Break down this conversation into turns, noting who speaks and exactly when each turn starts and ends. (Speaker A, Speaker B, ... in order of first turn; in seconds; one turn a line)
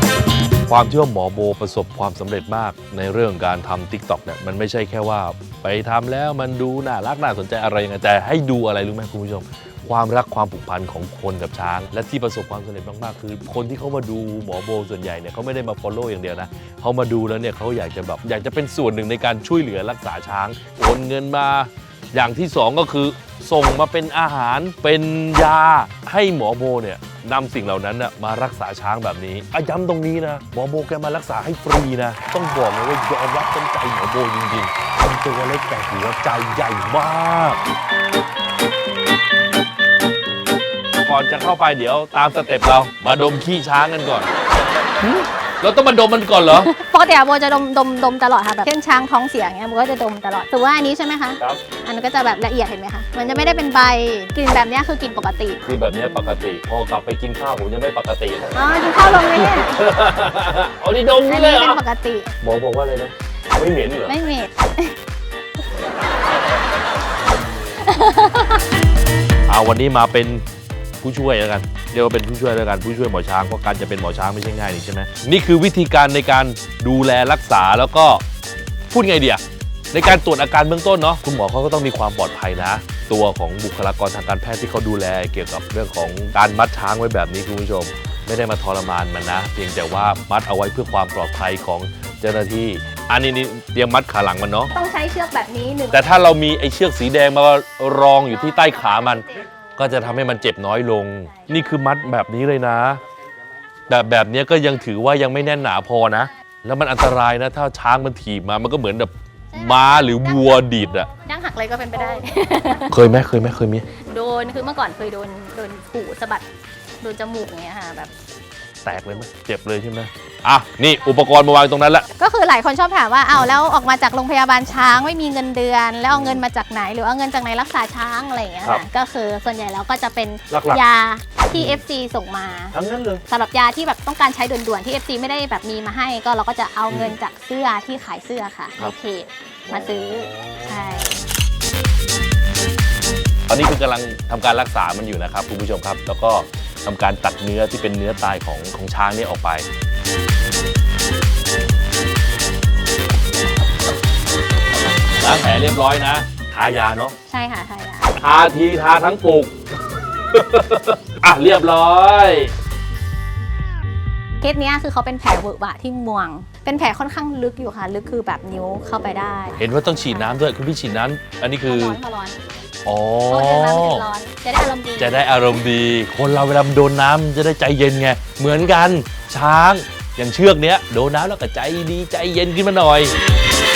Speaker A: 0.7-37.6
Speaker A: 41.0-44.3
Speaker A: 45.0-46.7
Speaker B: 46.5-56.4
Speaker A: 55.6-61.8
Speaker B: 58.5-59.8
Speaker B: 61.2-62.3
Speaker A: 62.4-64.2
Speaker B: 64.1-65.0
Speaker B: 67.8-68.6
Speaker A: 69.5-70.4
Speaker A: 71.0-78.2
Speaker A: 78.9-94.7
Speaker B: 94.7-96.1
Speaker A: 95.9-103.0
Speaker B: 98.5-99.4
Speaker A: 103.9-111.1
Speaker B: 109.5-110.5
Speaker B: 111.2-113.0
Speaker A: 112.9-113.9
Speaker B: 114.0-116.5
Speaker B: 117.0-118.1
Speaker A: 118.8-122.1
Speaker B: 122.2-132.8
Speaker A: 126.1-126.4
Speaker A: 130.5-130.8
Speaker A: 131.5-131.8
Speaker A: 132.7-133.2
Speaker B: 133.3-141.2
Speaker A: 136.9-137.2
Speaker A: 139.7-141.2
Speaker A: 143.5-149.7
Speaker A: 155.2-157.2
Speaker B: 157.3-158.2
Speaker A: 158.2-162.5
Speaker B: 164.4-170.4
Speaker A: 169.6-172.0
Speaker B: 171.7-172.4
Speaker A: 172.9-174.1
Speaker B: 173.3-175.4
Speaker A: 175.0-183.2